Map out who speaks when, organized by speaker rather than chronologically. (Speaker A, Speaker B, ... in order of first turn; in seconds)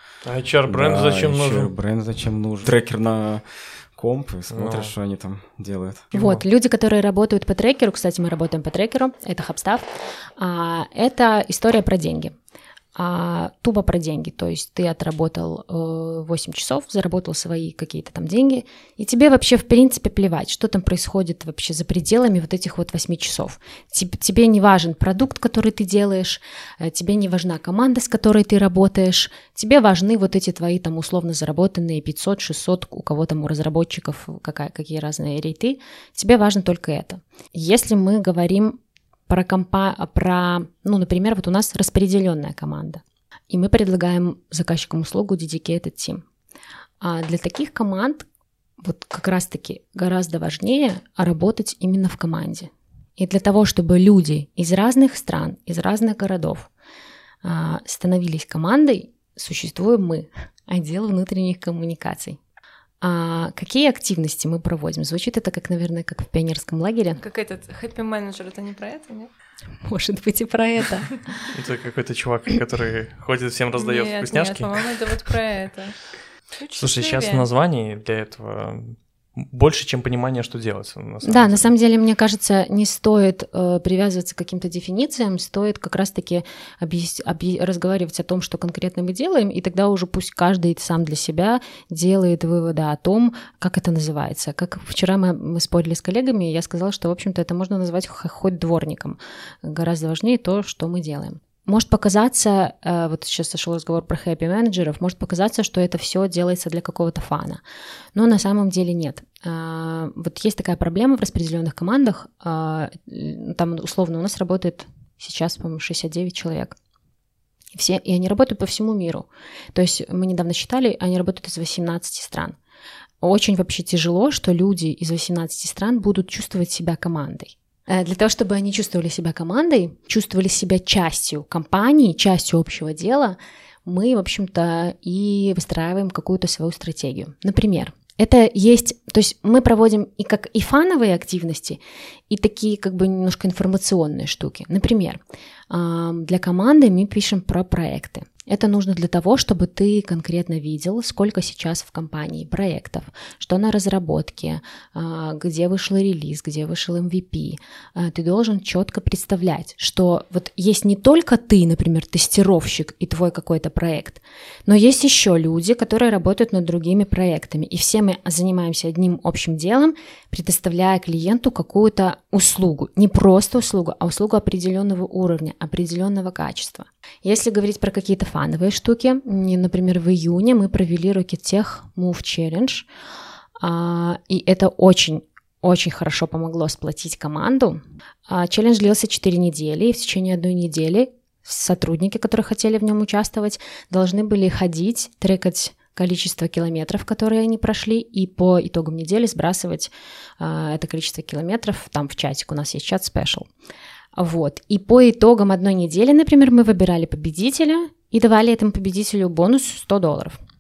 Speaker A: 0.2-1.7, 4.5-5.0, 6.1-6.4, 71.5-74.9, 76.8-81.7
Speaker B: 0.7-6.1
Speaker C: 6.1-12.3, 12.9-46.2, 47.0-48.2, 48.8-56.7, 57.4-62.4, 63.0-67.2, 69.8-71.2, 81.2-107.6, 108.2-116.8, 117.7-122.6, 123.2-182.9, 183.6-203.5, 204.2-210.4
Speaker D: 67.2-69.3, 73.8-76.0, 76.6-77.5